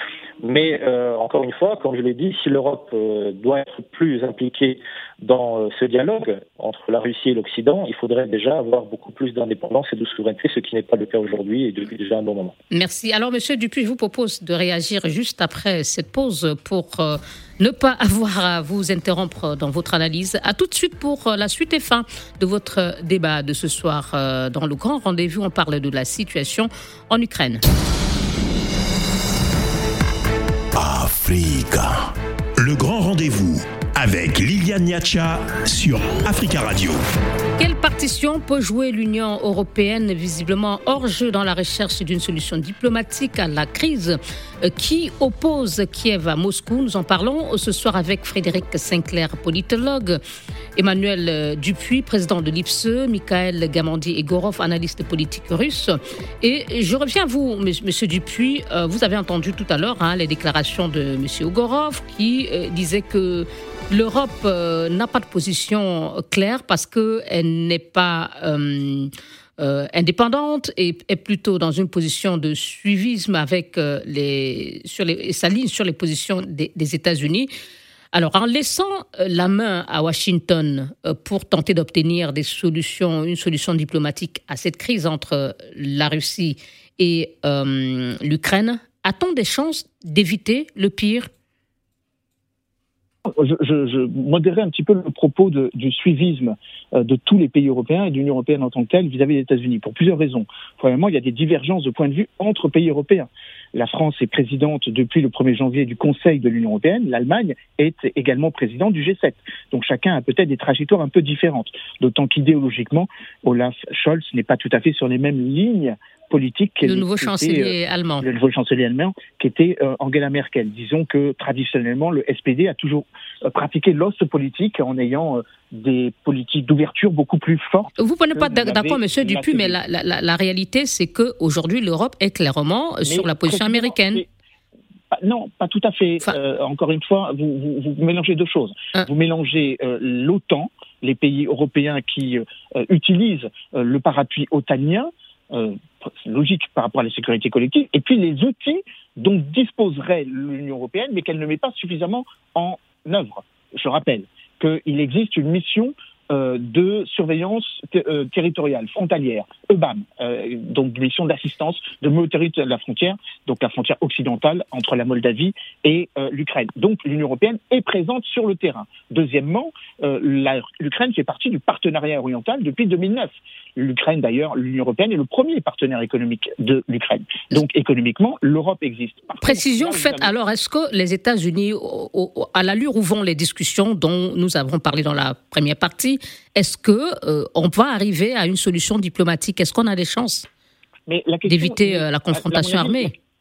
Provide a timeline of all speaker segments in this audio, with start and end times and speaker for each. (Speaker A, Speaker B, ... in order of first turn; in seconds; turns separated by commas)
Speaker A: 0.4-12.5, Speaker B: 12.7-27.6, Speaker C: 30.8-37.0, Speaker B: 37.6-50.2, Speaker B: 50.8-77.5, Speaker B: 78.1-91.3, Speaker D: 93.2-129.8, Speaker B: 116.8-118.2, Speaker B: 128.0-134.2, Speaker D: 133.1-134.3, Speaker D: 135.1-180.3, Speaker B: 179.4-190.5, Speaker D: 191.1-193.1, Speaker B: 191.5-193.1